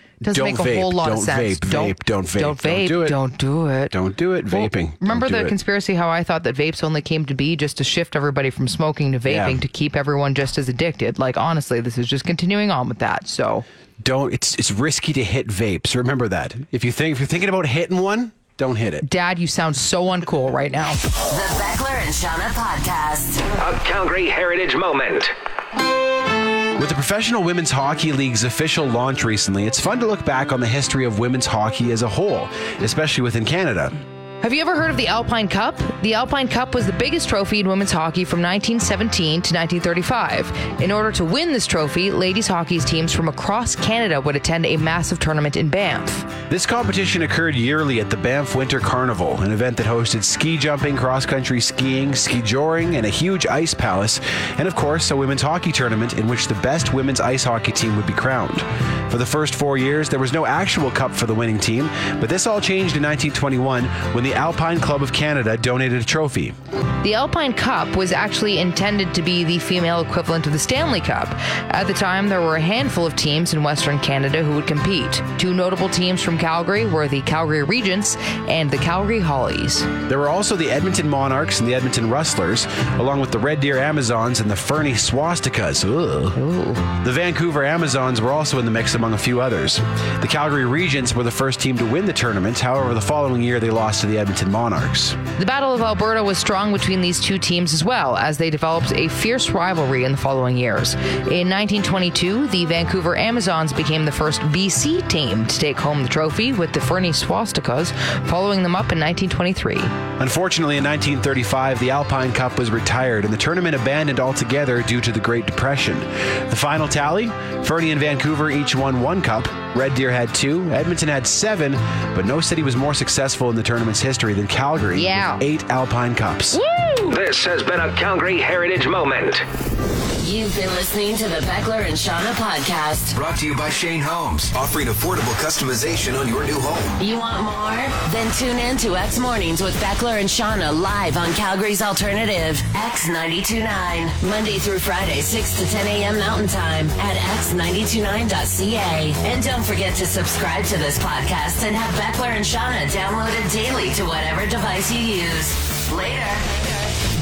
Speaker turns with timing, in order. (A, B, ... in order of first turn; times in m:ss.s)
0:00.2-0:03.2 A
0:00.2-0:03.9 B
0:03.9-0:05.6 A
0:04.5-0:13.6 B
0:09.2-0:09.6 A
0:14.0-0:19.0 A
0:19.0-0:21.0 B
0:21.2-0:23.7 C
0:23.6-0:25.3 D
0:26.8-0:33.9 A
0:34.4-0:46.3 B
0:46.5-1:06.6 A
1:07.0-1:19.9 B
1:20.0-1:26.4 A
1:26.3-1:26.9 B
1:26.9-1:35.2 A
1:35.4-1:49.9 B
1:50.2-2:06.6 A
2:04.9-2:05.4 B
2:06.5-2:07.2 B
2:07.1-2:09.4 D
2:10.2-2:13.1 C
2:13.1-2:17.0 E
2:17.0-2:36.7 C